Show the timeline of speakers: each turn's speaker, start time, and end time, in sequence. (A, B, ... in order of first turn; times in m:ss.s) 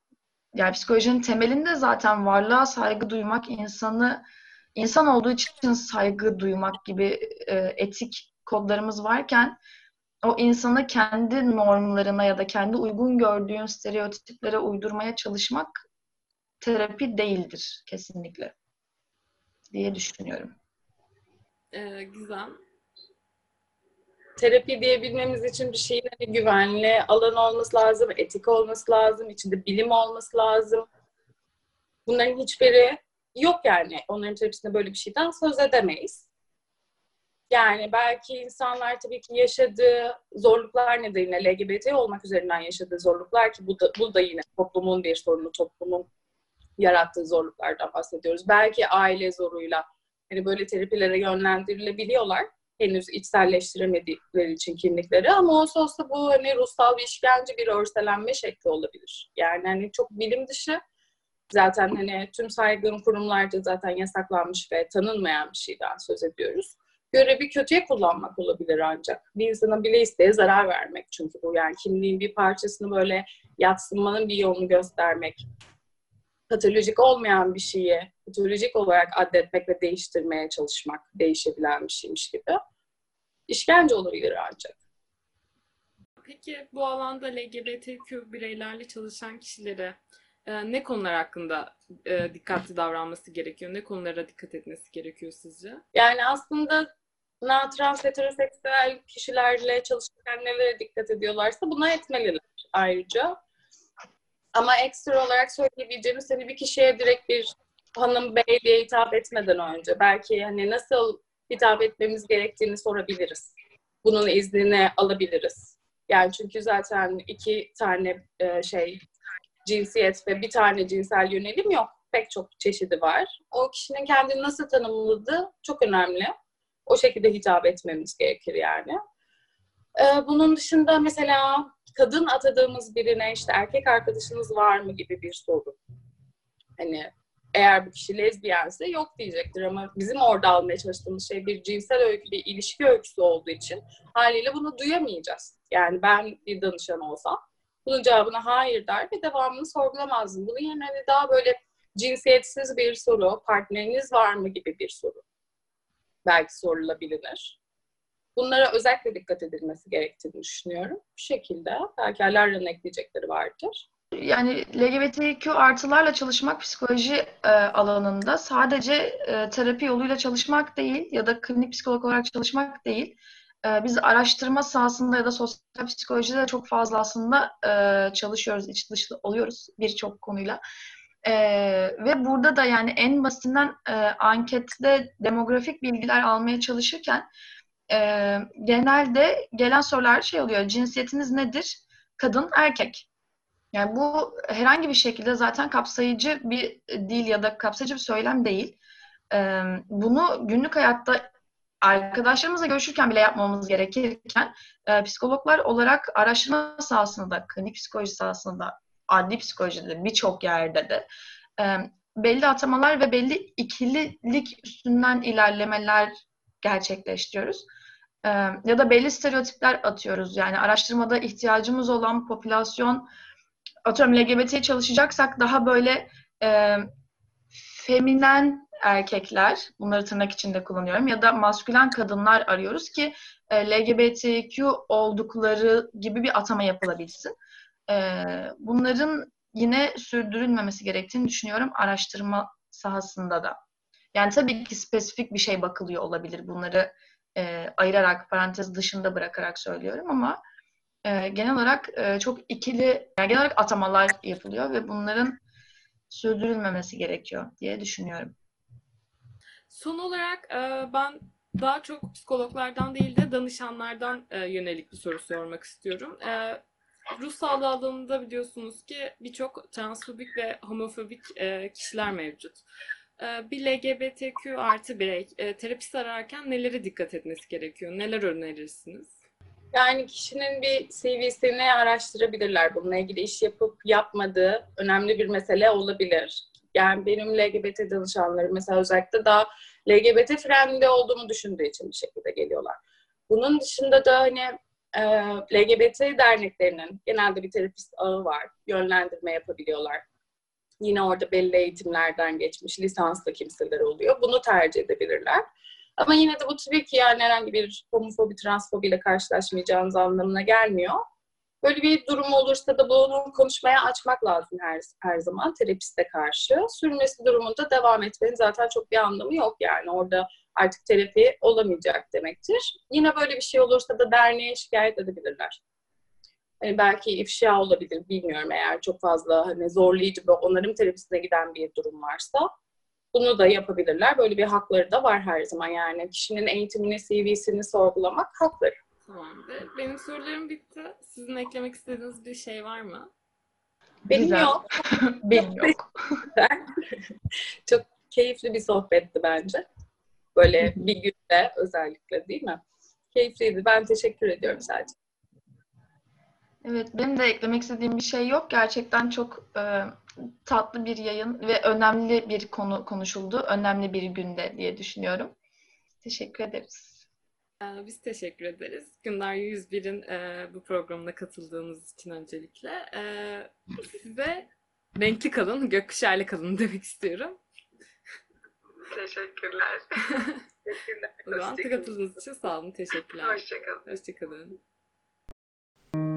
0:00.5-0:04.2 A
0:04.8-0:09.6 A
0:10.2-0:15.8 A
0:16.6-0:18.5 A
0:19.7-0:20.6 A
0:21.7-0:22.6 B
0:24.4-0:30.9 C
0:32.1-0:36.3 C
0:37.5-0:46.1 C
0:46.8-1:00.8 C
1:01.5-1:15.4 C
1:16.5-1:22.6 C
1:23.5-1:24.8 C
1:26.2-1:35.8 B
1:35.9-1:36.9 C
1:37.4-1:43.4 C
1:44.6-1:59.0 C
1:59.6-2:06.3 C
2:06.9-2:09.0 C
2:10.0-2:15.8 C
2:16.8-2:35.2 C
2:36.2-2:37.6 C
2:38.4-2:43.8 C
2:44.1-3:00.6 A
3:01.2-3:07.3 A
3:07.9-3:13.1 A
3:13.7-3:18.8 A
3:19.3-3:21.2 A
3:21.8-3:31.1 A
3:31.6-3:37.7 A
3:38.2-3:43.1 A
3:43.8-3:46.9 A
3:47.6-3:57.4 A
3:57.9-4:03.6 A
4:04.1-4:10.4 A
4:11.0-4:15.4 A
4:16.1-4:18.3 A
4:19.7-4:26.6 B
4:27.2-4:32.6 B
4:33.2-4:39.2 B
4:39.7-5:00.0 C
5:00.8-5:05.4 C
5:06.0-5:11.0 C
5:11.6-5:25.6 C
5:26.6-5:32.5 C
5:33.1-5:38.8 C
5:39.1-5:43.1 B
5:44.1-5:46.2 A
5:44.1-5:44.6 C
5:45.3-5:45.8 C
5:46.4-5:46.6 C
5:47.7-5:49.7 C
5:50.4-5:52.6 C
5:53.1-5:54.9 C
5:56.6-6:05.4 A
6:06.0-6:07.0 A
6:07.6-6:17.4 B
6:18.9-6:22.1 C
6:21.3-6:24.6 B
6:23.2-6:23.9 C